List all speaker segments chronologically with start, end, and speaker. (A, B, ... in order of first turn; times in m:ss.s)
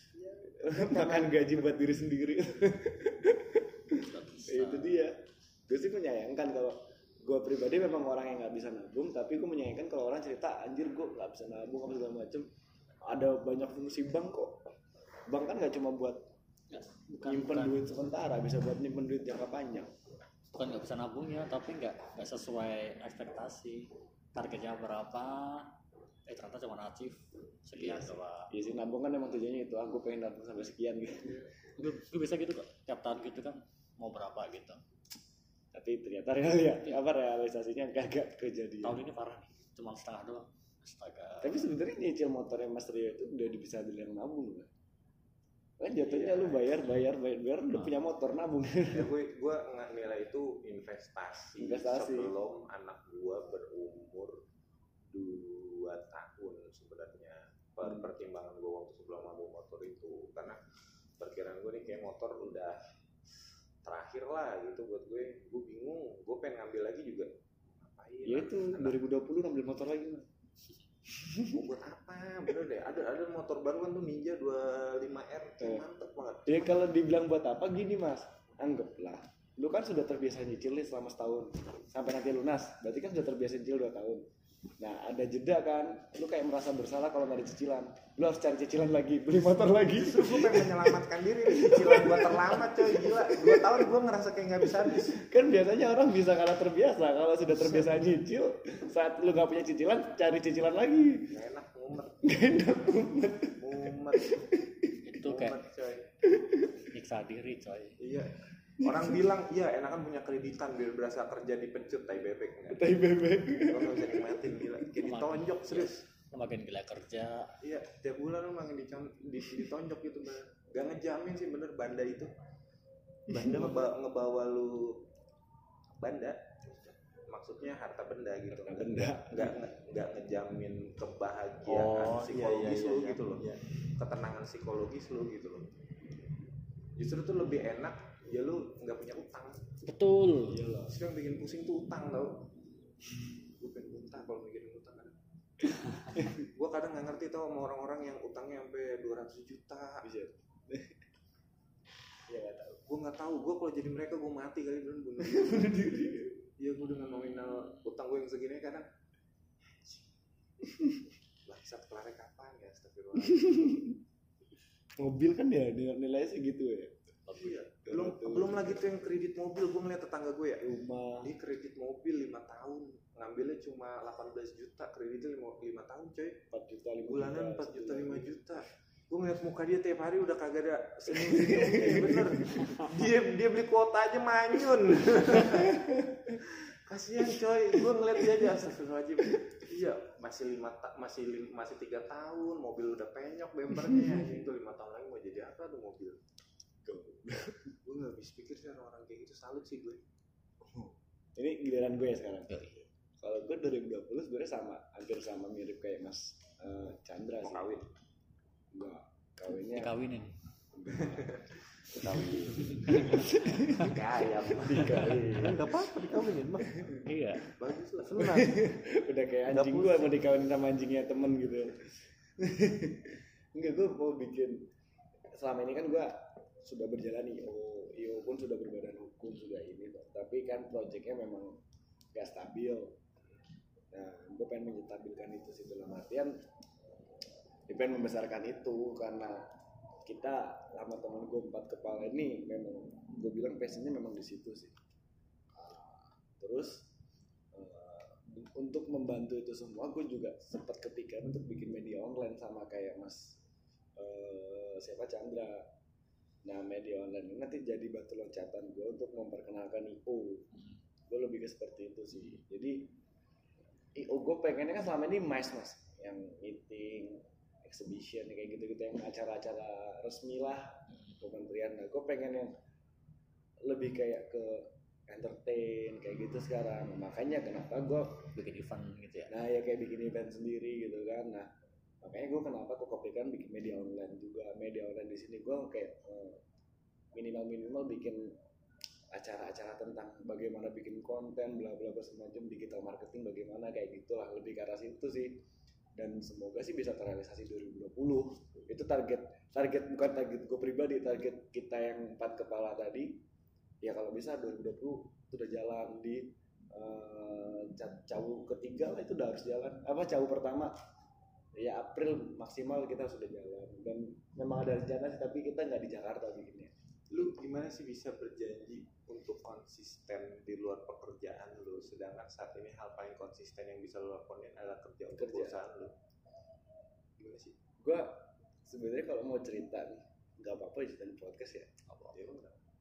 0:00.2-0:01.5 A
0:00.6-0:12.5 B
0:04.0-0:05.0 C
0:13.0-0:14.6 B
0:15.3-0:16.3 B
0:16.7-0:17.8 C
0:17.2-0:19.9 B
0:20.5-0:25.7 C
0:26.3-0:28.5 C
0:27.7-0:31.4 B
0:31.8-0:34.8 C
0:35.7-0:39.0 B
0:38.8-0:41.6 C
0:41.4-0:44.7 B
0:45.8-0:49.1 B
0:46.0-0:46.6 D
0:48.9-0:54.4 D
0:51.6-0:52.3 B
0:55.1-1:00.6 D
1:01.2-1:02.8 D
1:03.8-1:09.0 D
1:08.2-1:10.3 B
1:11.1-1:11.6 B
1:11.5-1:16.7 D
1:15.6-1:15.8 B
1:16.4-1:24.2 B
1:24.8-1:33.9 B
1:29.9-1:35.2 D
1:34.6-1:41.3 B
1:37.5-1:37.9 D
1:41.3-1:42.4 D
1:42.2-1:45.0 B
1:43.6-1:44.6 D
1:45.0-1:45.6 C
1:45.2-1:46.1 D
1:46.2-1:46.8 B
1:46.9-1:48.0 C
1:48.0-1:52.9 D
1:48.8-1:49.2 B
1:52.7-1:54.6 B
1:53.6-1:56.0 D
1:55.0-1:57.6 C
1:57.6-2:02.3 D
2:03.3-2:05.0 D
2:06.0-2:15.7 D
2:08.5-2:09.6 B
2:11.7-2:13.6 A
2:11.7-2:12.3 C
2:17.0-2:19.6 D
2:19.8-2:20.6 C
2:20.5-2:21.0 B
2:20.8-2:22.5 D
2:23.6-2:25.2 D
2:26.3-2:30.0 D
2:30.0-2:31.0 B
2:32.3-2:32.8 B
2:32.8-2:35.9 D
2:35.2-2:36.4 B
2:36.6-2:38.9 D
2:41.4-2:43.8 D
2:43.2-2:44.0 B
2:45.0-2:47.0 B
2:47.3-2:47.6 C
2:47.3-2:50.6 D
2:47.9-2:49.0 B
2:50.6-2:51.3 B
2:51.2-2:56.4 D
2:56.5-2:58.4 B
2:57.0-3:16.2 D
3:01.1-3:02.6 B
3:05.5-3:06.4 B
3:09.2-3:09.5 B
3:16.8-3:17.8 B
3:17.8-3:20.0 D
3:20.7-3:27.7 B
3:22.5-3:22.8 C
3:27.4-3:27.8 D
3:28.7-3:29.9 B
3:29.7-3:30.3 C
3:30.7-3:31.4 B
3:31.0-3:31.4 D
3:31.9-3:35.7 B
3:32.0-3:33.0 D
3:32.0-3:33.8 C
3:33.7-3:35.2 D
3:34.8-3:35.2 C
3:35.3-3:36.9 A
3:36.7-3:37.0 B
3:37.0-3:37.5 C
3:37.5-3:38.3 D
3:38.0-3:38.6 A
3:38.2-3:44.7 B
3:39.5-3:40.1 A
3:45.3-3:51.6 B
3:52.1-3:53.0 B
3:53.9-3:56.4 B
3:57.7-3:59.4 B
4:00.0-4:04.7 B
4:05.5-4:06.9 B
4:07.5-4:13.4 B
4:14.0-4:15.7 B
4:16.4-4:20.5 B
4:21.1-4:22.9 B
4:23.9-4:32.5 B
4:33.6-4:38.3 B
4:38.3-4:39.3 C
4:39.3-4:41.5 B
4:42.0-4:46.4 B
4:47.1-4:48.4 B
4:49.1-4:55.4 B
4:56.0-5:03.2 B
5:03.8-5:10.7 B
5:11.6-5:16.7 B
5:17.1-5:25.9 D
5:25.1-5:25.6 B
5:27.2-5:27.6 D
5:27.8-5:31.7 B
5:31.9-5:32.1 C
5:32.1-5:32.6 D